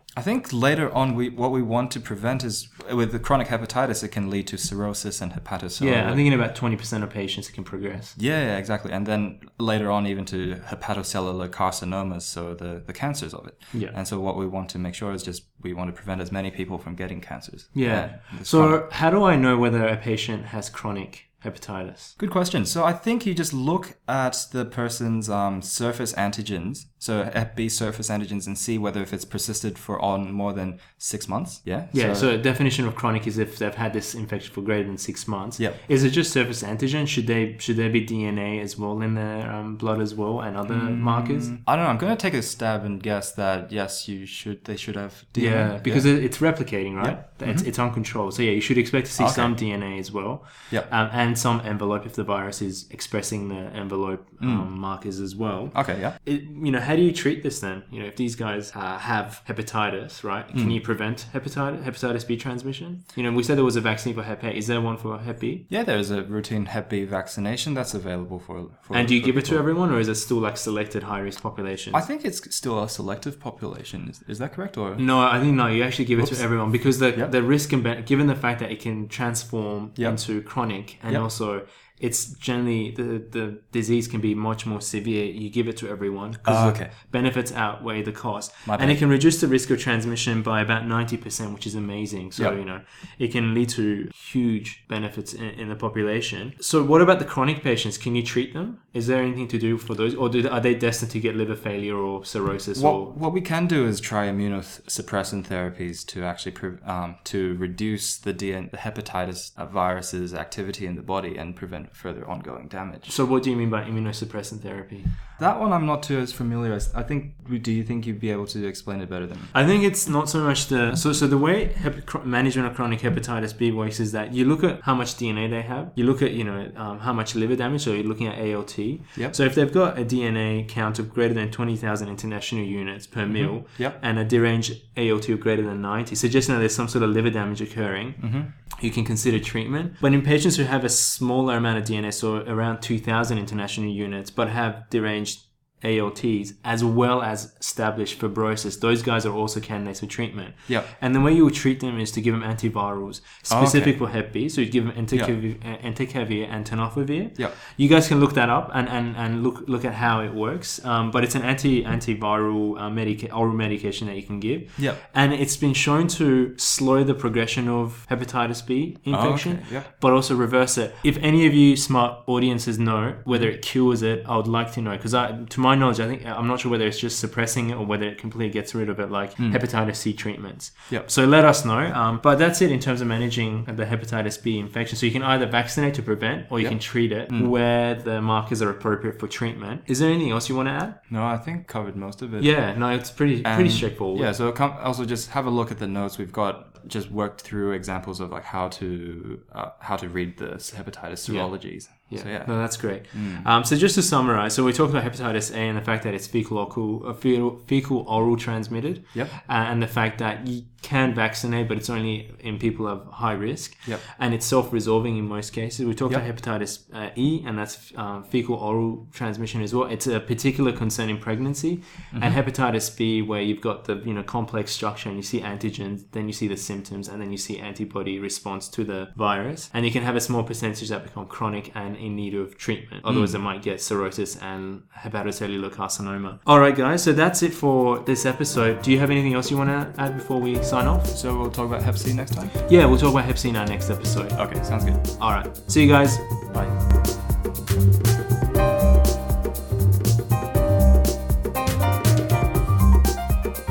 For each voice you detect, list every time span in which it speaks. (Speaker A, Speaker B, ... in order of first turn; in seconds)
Speaker A: 0.1-6.2, 8.2-18.8, 22.2-32.3, 40.7-47.7, 49.2-49.6, 54.4-54.7, 55.7-56.1, 60.5-60.8, 65.7-69.7, 71.9-75.1, 76.2-77.3, 80.0-81.2, 86.4-86.9, 88.7-89.0, 102.7-113.2, 115.4-119.5, 133.3-134.0, 138.2-138.5, 153.5-154.0, 169.1-169.9, 179.4-179.6, 186.6-187.5, 191.1-203.5, 222.1-222.4, 233.1-233.4, 241.1-242.6, 244.3-245.0
Speaker B: 5.8-8.2, 17.7-22.1, 31.9-41.5, 45.4-65.6, 68.9-72.0, 75.0-103.1, 113.0-115.1, 119.5-191.0, 192.4-194.3, 201.2-241.1, 242.6-246.5